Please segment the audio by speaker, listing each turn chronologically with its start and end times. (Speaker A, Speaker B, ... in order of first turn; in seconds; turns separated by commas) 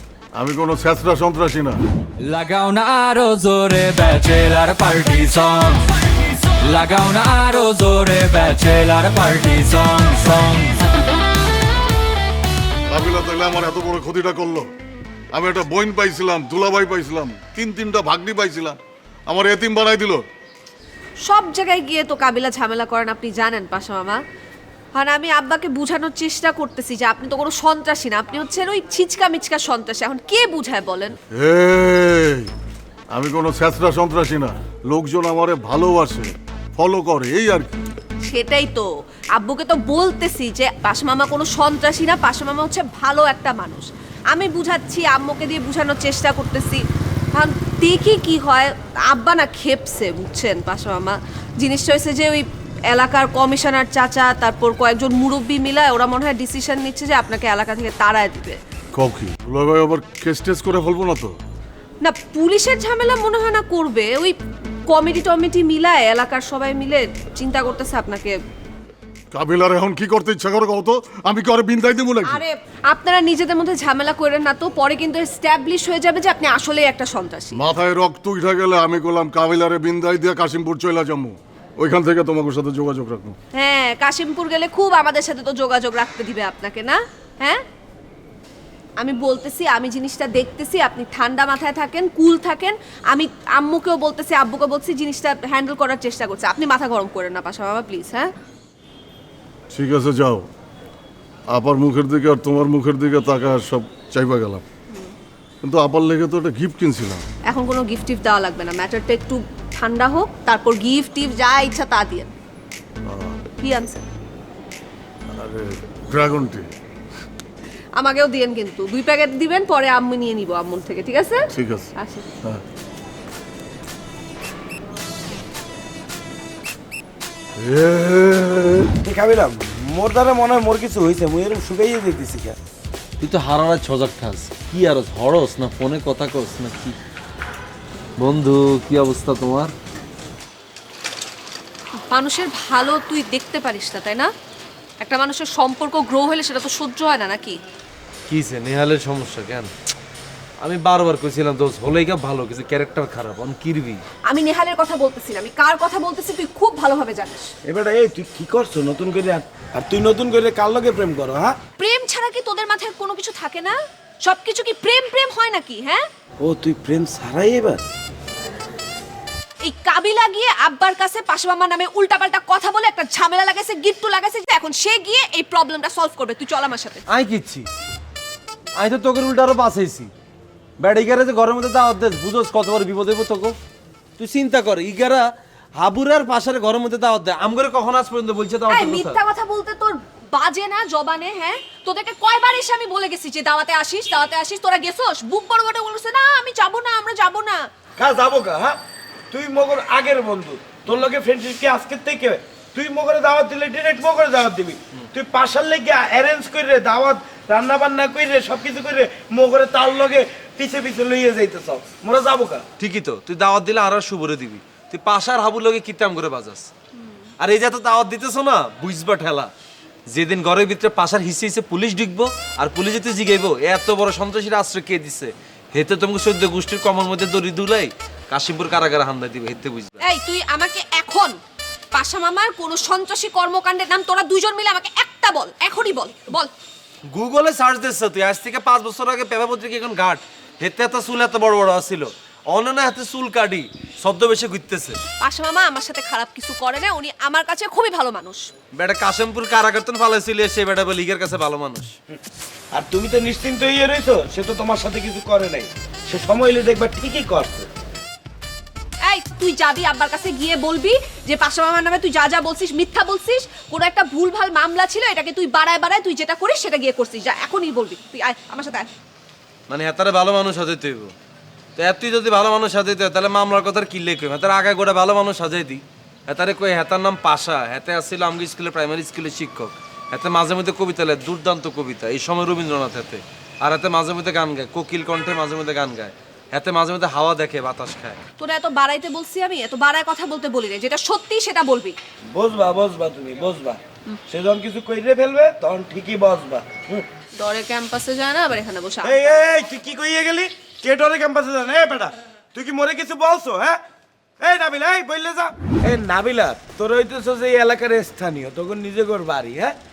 Speaker A: 0.4-1.8, Speaker B: 2.2-10.9, Speaker A: 12.9-14.7, Speaker A: 15.3-18.8, Speaker A: 19.3-20.2, Speaker C: 21.2-24.2, Speaker C: 24.9-31.2, Speaker A: 31.4-32.5, Speaker A: 33.1-37.7, Speaker C: 38.3-46.8, Speaker C: 47.3-58.6, Speaker A: 58.9-61.4, Speaker C: 62.0-64.3, Speaker C: 64.9-68.4, Speaker A: 69.3-72.4, Speaker C: 72.3-77.6, Speaker A: 77.5-83.4, Speaker C: 83.5-87.6, Speaker C: 89.0-98.3, Speaker A: 99.7-100.5, Speaker A: 101.5-104.6, Speaker A: 105.6-107.2, Speaker C: 107.5-112.3, Speaker A: 113.0-113.4, Speaker C: 113.6-114.0, Speaker A: 115.3-116.7, Speaker C: 118.0-122.2, Speaker A: 121.5-121.9, Speaker A: 127.6-128.9, Speaker D: 129.0-132.6, Speaker E: 133.2-137.0, Speaker E: 138.2-139.7, Speaker C: 142.1-144.3, Speaker C: 145.0-147.6, Speaker E: 148.3-149.7, Speaker E: 150.6-154.0, Speaker C: 154.3-157.5, Speaker D: 157.7-161.6, Speaker C: 161.8-166.1, Speaker D: 166.4-167.8, Speaker C: 169.6-177.1, Speaker E: 177.1-177.7, Speaker E: 178.8-180.1, Speaker E: 180.8-183.6, Speaker E: 184.2-189.2, Speaker C: 188.7-197.7, Speaker D: 198.0-198.8, Speaker D: 199.3-212.7, Speaker E: 212.8-216.7, Speaker C: 217.0-217.3, Speaker E: 217.4-219.5, Speaker E: 220.1-230.0, Speaker C: 230.0-231.4, Speaker C: 231.9-236.5, Speaker E: 237.1-245.0, Speaker C: 245.2-248.5, Speaker E: 248.7-251.9, Speaker D: 252.7-257.7, Speaker C: 259.0-268.9, Speaker E: 269.7-271.1, Speaker E: 271.8-288.2, Speaker C: 288.4-292.0, Speaker D: 292.3-297.1, Speaker C: 297.4-299.4, Speaker D: 299.0-303.8, Speaker D: 304.4-309.8